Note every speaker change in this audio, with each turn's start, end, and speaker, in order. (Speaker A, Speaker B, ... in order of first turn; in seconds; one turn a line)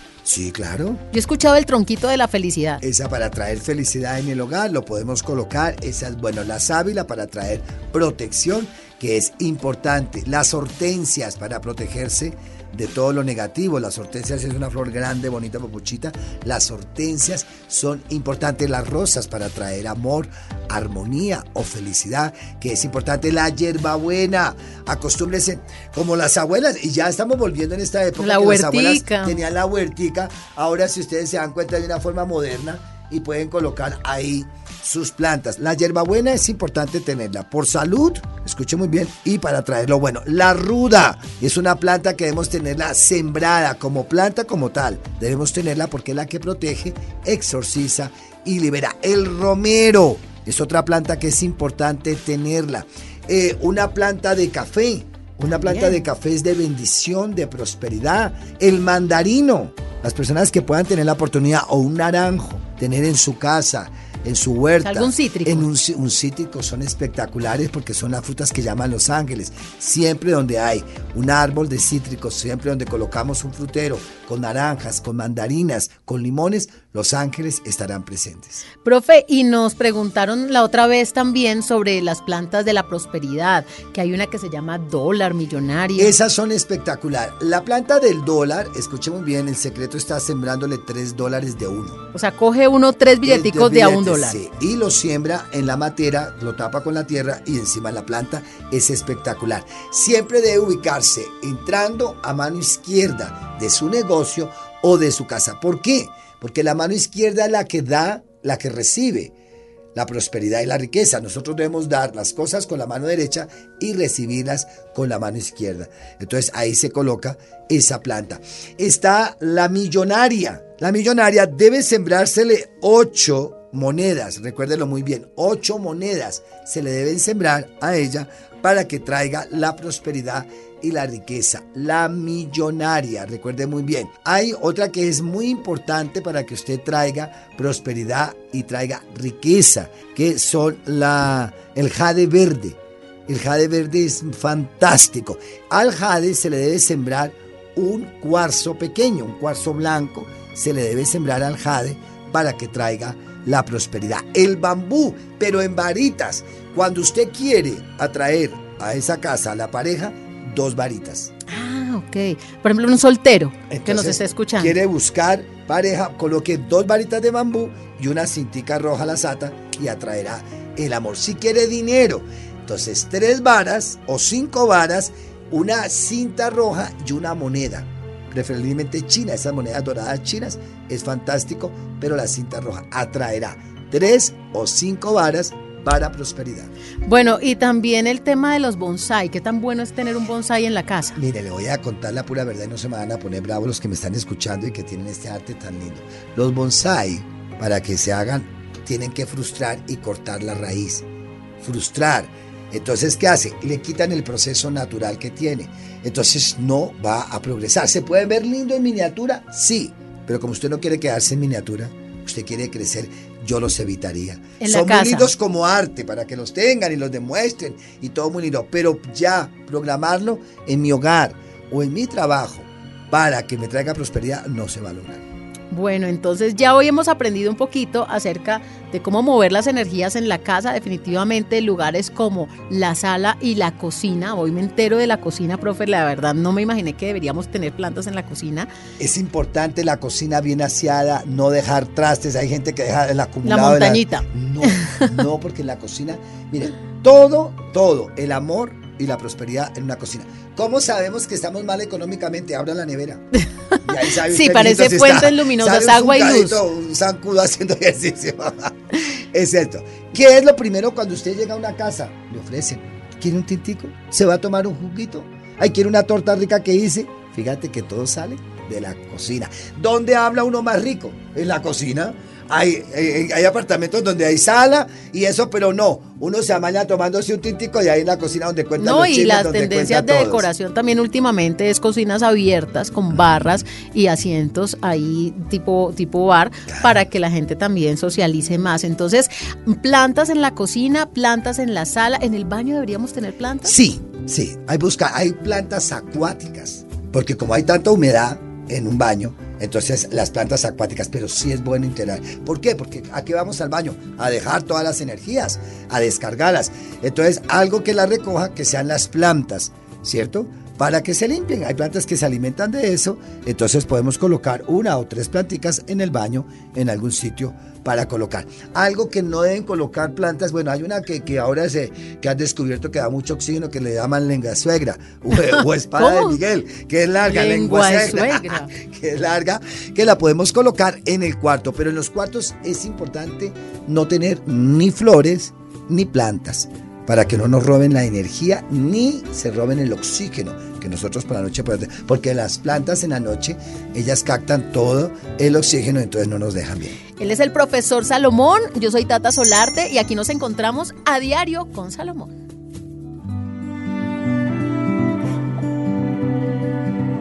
Speaker A: 0.2-1.0
Speaker B: 1.1-2.8
Speaker A: 2.8-78.6
Speaker B: 28.2-29.4
Speaker B: 55.6-56.0
Speaker B: 64.8-65.7
Speaker B: 78.8-86.2
Speaker A: 86.0-92.0
Speaker B: 92.1-94.4
Speaker A: 93.2-109.3
Speaker A: 109.9-161.3
Speaker B: 161.5-164.7
Speaker A: 163.7-186.7
Speaker B: 187.1-191.2
Speaker A: 191.2-201.1
Speaker A: 201.6-225.2
Speaker B: 214.6-215.3
Speaker B: 225.7-238.7
Speaker A: 239.0-253.3
Speaker B: 243.4-245.1
Speaker A: 253.8-280.5
Speaker B: 254.2-256.6
Speaker B: 278.8-293.7
Speaker A: 293.6-347.0
Speaker B: 325.5-326.4
Speaker B: 327.2-328.7
Speaker B: 347.2-352.3